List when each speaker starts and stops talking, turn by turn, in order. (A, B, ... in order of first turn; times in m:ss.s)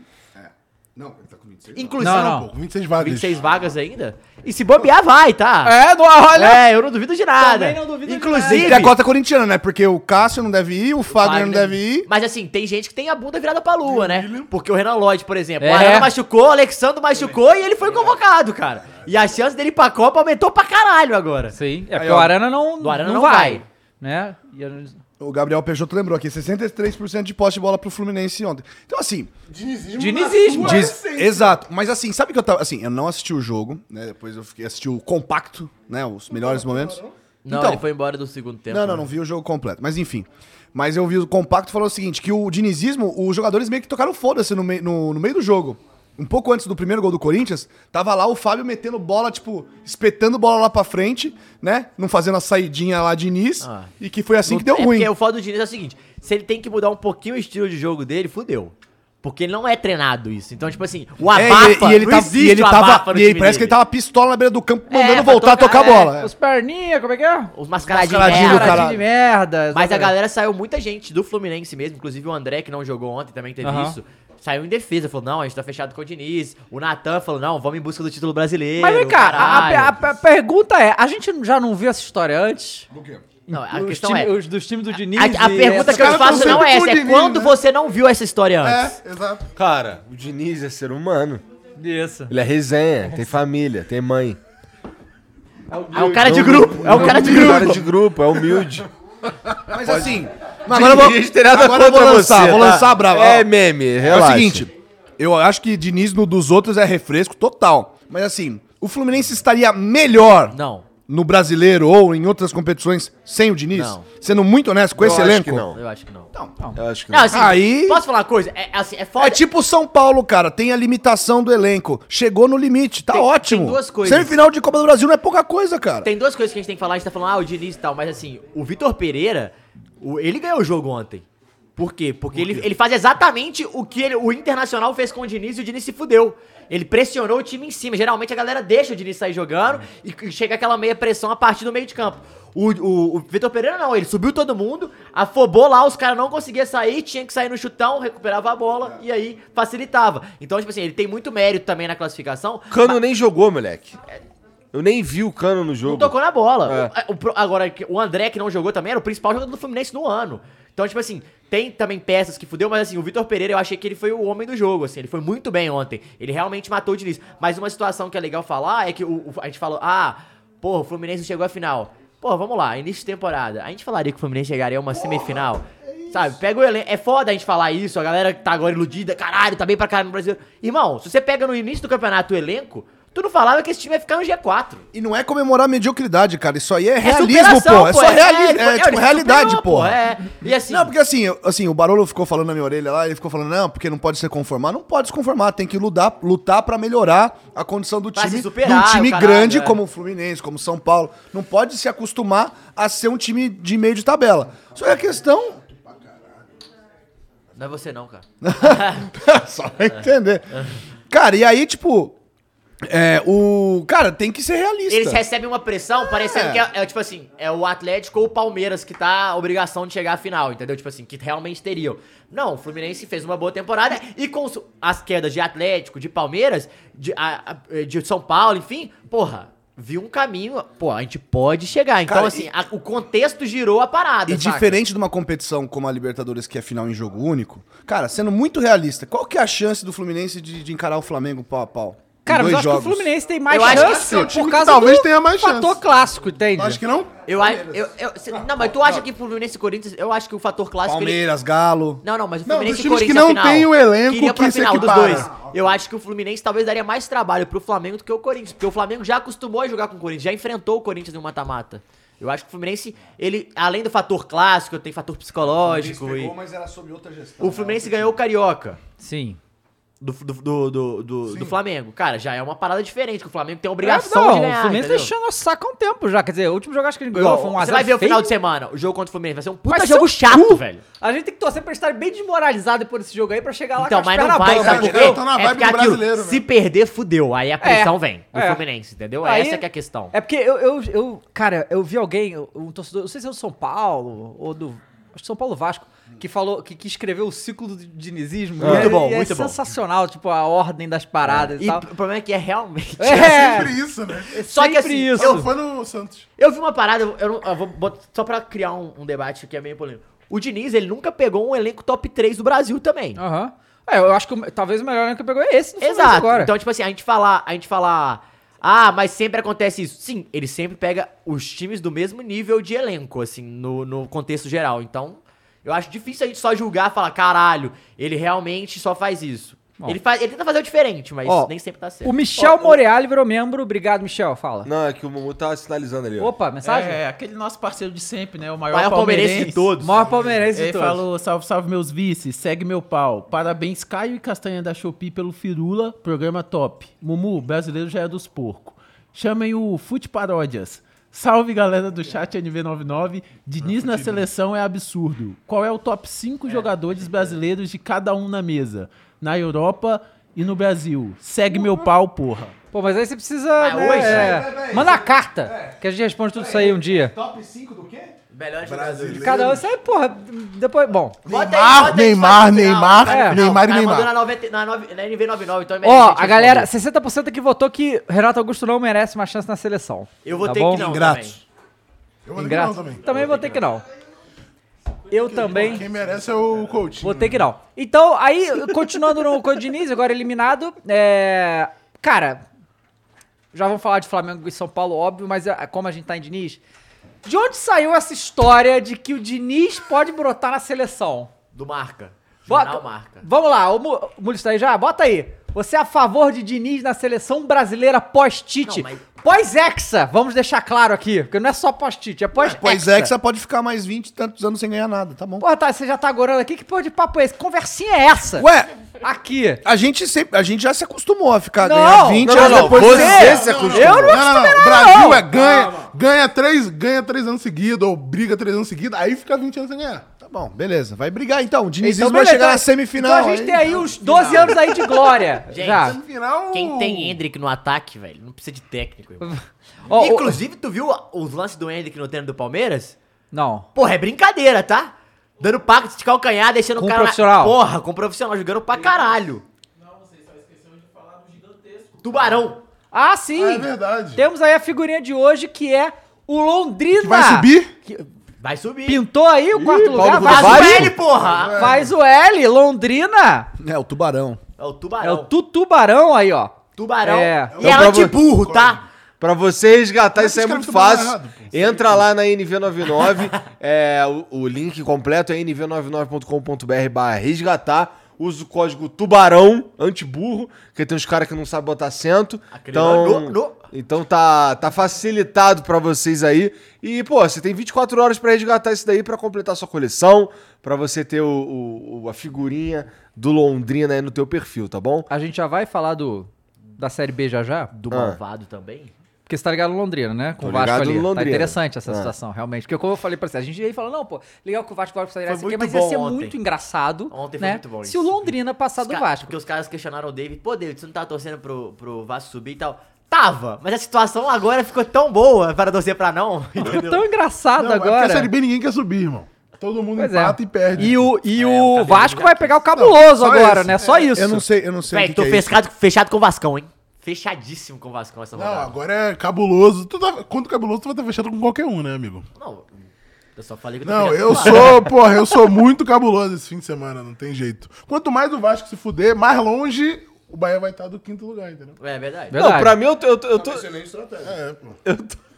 0:00.3-0:02.0 A
0:01.7-0:05.8 B
0:02.0-0:02.5 C
0:02.0-0:03.4 D
0:05.6-0:06.6 C
0:06.3-0:09.0 B
0:07.4-0:08.9 C
0:08.5-0:12.1 A
0:11.1-0:21.6 B
0:13.8-0:14.5 D
0:15.6-0:16.1 C
0:21.5-0:25.0 C
0:21.9-0:22.3 A
0:22.8-0:23.6 B
0:25.2-0:29.3 A
0:29.5-0:31.6 D
0:30.0-0:30.9 C
0:30.5-0:37.8 A
0:36.3-0:37.1 D
0:37.4-0:39.0 B
0:38.7-0:55.1 A
0:53.6-0:53.9 B
0:54.4-1:03.8 B
1:01.3-1:06.3 A
1:04.9-1:06.1 B
1:05.9-1:07.5 C
1:07.5-1:09.0 B
1:07.9-1:09.0 A
1:08.1-1:10.1 C
1:09.7-1:20.0 B
1:13.6-1:14.0 C
1:18.8-1:22.9 C
1:22.9-1:23.2 A
1:23.5-1:26.6 C
1:23.5-1:24.3 B
1:25.1-1:29.0 B
1:25.7-1:27.6 D
1:28.6-1:29.5 D
1:29.6-1:31.4 E
1:31.8-1:32.3 C
1:32.3-1:34.4 E
1:35.9-1:37.8 B
1:36.0-1:38.9 E
1:36.4-1:37.8 D
1:39.7-1:50.6 A
1:39.8-1:40.1 E
1:40.7-1:44.6 E
1:50.5-1:50.9 B
1:51.1-1:55.7 A
1:53.7-1:54.0 B
1:55.0-1:55.8 E
1:55.0-1:56.3 B
1:56.8-1:57.4 E
1:57.1-1:59.4 B
1:57.3-1:58.0 A
1:59.2-2:06.1 A
2:03.1-2:04.4 B
2:06.0-2:11.2 B
2:11.8-2:33.0 B
2:32.7-2:34.0 E
2:34.7-2:36.9 E
2:35.8-3:04.8 B
3:04.9-3:10.0 A
3:07.0-3:10.9 B
3:10.6-3:25.6 A
3:18.1-3:19.8 B
3:25.7-3:26.3 D
3:27.5-3:29.1 B
3:28.4-3:30.6 A
3:31.1-3:32.2 A
3:32.8-3:35.2 A
3:34.9-3:54.8 B
3:36.0-3:36.6 A
3:52.0-3:52.5 A
3:54.3-4:03.1 A
4:02.2-4:06.8 C
4:03.5-4:04.3 B
4:03.6-4:05.8 D
4:06.5-4:07.7 D
4:07.2-4:11.2 B
4:10.8-4:12.0 A
4:12.0-4:26.3 B
4:12.4-4:15.5 D
4:14.8-4:15.8 A
4:25.5-4:28.2 A
4:27.4-4:28.8 B
4:29.0-4:29.4 C
4:30.0-4:35.1 B
4:33.8-4:38.3 C
4:37.1-4:40.8 B
4:39.7-4:45.1 C
4:43.8-4:50.1 B
4:44.4-4:46.4 D
4:47.6-4:48.6 C
4:49.2-5:01.8 C
4:58.6-4:58.9 E
4:58.6-4:59.6 B
5:01.2-5:03.7 B
5:03.0-5:03.7 C
5:03.1-5:04.4 D
5:04.3-5:05.5 C
5:04.4-5:05.5 B
5:05.2-5:06.3 D
5:06.4-5:13.2 B
5:13.2-5:16.5 C
5:15.8-5:32.8 B
5:31.2-5:31.5 C
5:32.0-5:34.7 C
5:34.6-5:36.3 E
5:36.2-5:37.0 C
5:36.6-5:39.7 F
5:38.7-5:40.0 B
5:39.8-5:41.0 C
5:40.5-6:02.5 F
5:53.6-5:54.2 D
6:02.7-6:07.1 C
6:03.6-6:04.6 B
6:03.9-6:05.8 A
6:06.3-6:08.2 A
6:08.3-6:09.4 B
6:08.6-6:09.7 D
6:09.2-6:11.2 C
6:11.2-6:14.1 D
6:11.3-6:16.7 B
6:13.1-6:13.4 C
6:15.8-6:20.8 C
6:20.2-6:21.4 B
6:20.7-6:21.4 A
6:22.2-6:23.3 D
6:22.3-6:23.8 C
6:23.1-6:23.5 B
6:25.1-6:25.9 C
6:25.2-6:27.4 D
6:27.0-6:32.4 C
6:33.5-6:36.6 C
6:37.2-6:41.3 C
6:41.5-6:43.2 B
6:42.5-6:53.1 C
6:48.6-6:49.0 B
6:52.4-6:55.4 A
6:55.4-6:58.5 C
6:58.4-6:58.7 A
6:59.0-6:59.6 C
6:59.6-7:04.1 A
7:01.6-7:05.6 C
7:02.2-7:04.1 E
7:02.4-7:10.0 D
7:05.4-7:05.8 A
7:10.2-7:13.8 A
7:11.8-7:16.0 C
7:13.7-7:14.8 D
7:14.2-7:14.5 B
7:15.5-7:16.0 B
7:15.8-7:17.2 D
7:16.5-7:19.3 B
7:19.2-7:20.4 C
7:19.9-7:22.9 B
7:23.3-7:23.7 C
7:23.7-7:29.4 B
7:26.8-7:27.6 C
7:28.7-7:29.1 F
7:29.8-7:32.5 F
7:32.0-7:32.6 B
7:32.9-7:38.1 C
7:33.3-7:34.2 D
7:37.0-7:37.7 D
7:38.4-7:39.0 B
7:38.8-7:40.9 C
7:39.7-7:41.0 E
7:40.0-7:41.8 B
7:40.9-7:41.9 D
7:41.6-7:43.5 C
7:43.6-7:44.4 A
7:44.6-7:45.3 B
7:45.0-7:47.6 C
7:46.8-7:48.8 B
7:47.5-7:48.8 D
7:47.6-7:48.2 E
7:49.2-8:15.1 E
7:50.1-7:52.1 D
8:02.5-8:03.6 B
8:15.1-8:17.7 C
8:17.7-8:18.9 B
8:17.9-8:18.2 E
8:19.3-8:29.3 C
8:20.4-8:22.1 E
8:25.2-8:26.4 B
8:27.1-8:36.9 B
8:36.6-8:38.3 C
8:36.7-8:36.9 D
8:37.6-8:41.1 D
8:40.0-8:44.4 C
8:40.8-8:42.6 B
8:42.7-8:44.1 D
8:44.1-8:45.5 A
8:44.9-8:48.7 B
8:48.3-8:52.2 D
8:52.4-8:52.7 B
8:53.4-8:55.0 B
8:53.8-9:01.8 D
9:01.8-9:02.3 B
9:02.3-9:02.8 C
9:02.3-9:03.7 E
9:03.3-9:04.4 A
9:04.2-9:04.8 D
9:04.8-9:05.2 E